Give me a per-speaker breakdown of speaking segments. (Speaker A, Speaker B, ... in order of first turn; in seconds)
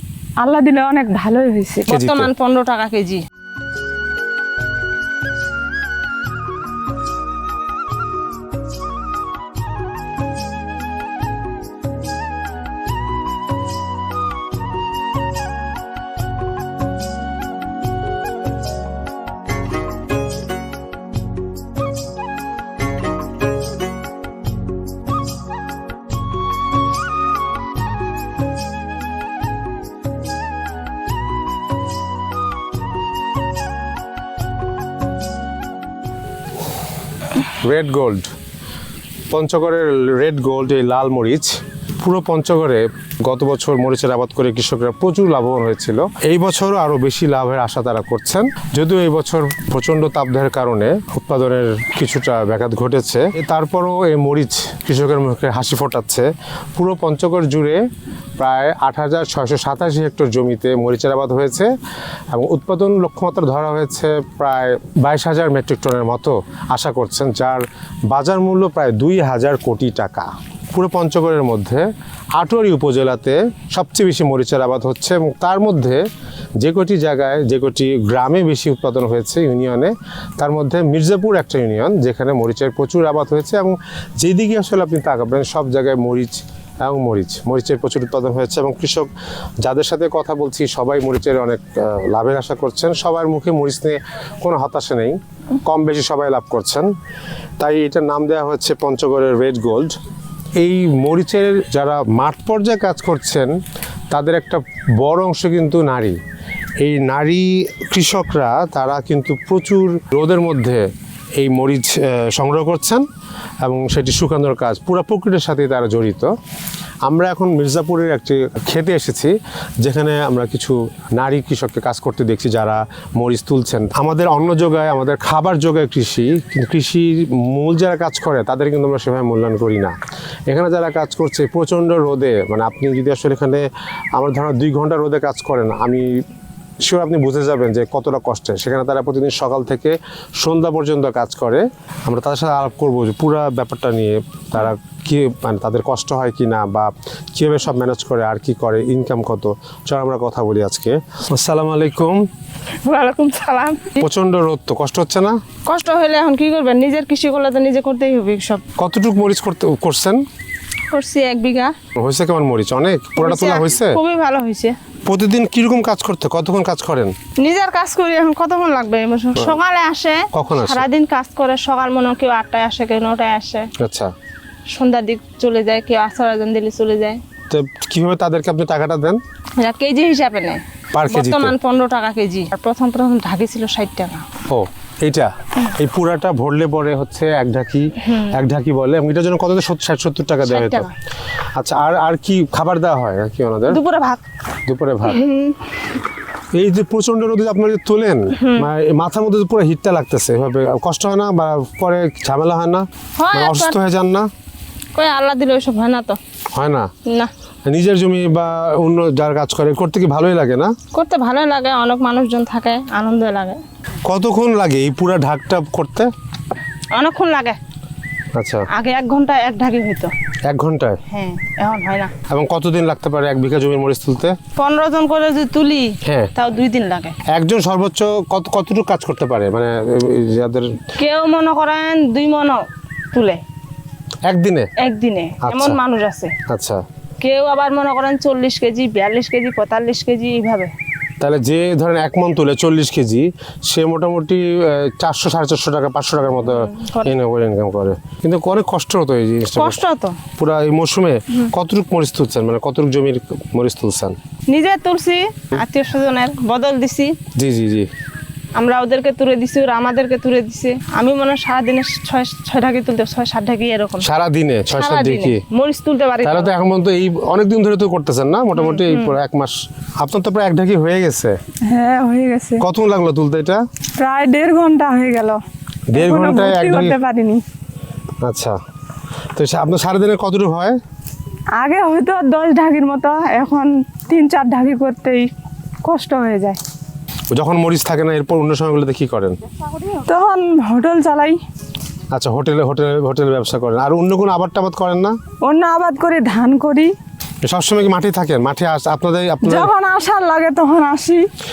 Speaker A: 0.4-1.9, 271.7-272.6, 274.0-275.4, 275.9-277.4, 281.6-285.3, 285.8-286.6, 289.9-291.4, 295.4-296.9, 299.4-301.2
Speaker B: 1.9-3.2, 152.8-154.1, 155.7-158.6, 160.9-161.7, 163.2-164.8, 167.4-173.7, 174.7-177.2, 179.6-184.2, 188.1-188.4, 190.4-190.9, 193.7-194.2, 195.0-195.7, 198.4-198.7, 203.2-203.8, 204.9-206.2, 210.9-213.6, 216.9-217.6, 218.7-220.1, 221.1-222.1, 224.6-227.2, 231.0-233.4, 234.8-236.3, 237.2-240.7, 246.4-247.2, 249.6-250.2, 254.5-257.1, 258.6-264.1, 264.8-266.5, 268.6-269.2
Speaker C: 1.9-2.3, 37.6-38.3, 39.3-57.8, 58.4-61.7, 62.3-76.0, 76.6-89.1, 89.6-96.9, 97.6-100.0, 100.6-103.5, 104.1-106.2, 106.8-110.9, 111.4-113.0, 113.6-116.3, 117.0-130.0, 130.5-136.2, 136.8-152.3, 154.0-155.4, 158.8-160.2, 162.0-164.0, 165.1-167.2, 170.3-170.9, 173.8-174.1, 177.5-179.2, 180.9-181.5, 184.5-190.9, 191.6-193.8, 194.7-195.2, 196.5-204.3, 206.5-206.9, 207.7-210.7, 214.0-216.1, 218.3-218.7, 220.5-221.0, 222.3-224.4, 226.0-226.3, 227.3-230.8, 234.3-234.7, 235.4-235.8, 236.5-236.8, 241.2-249.8, 250.4-254.2, 257.4-257.9, 264.0-265.4, 266.2-271.3, 272.6-273.6, 275.9-277.0, 278.2-278.6, 279.4-280.8, 287.3-289.4, 292.1-295.2, 297.4-299.7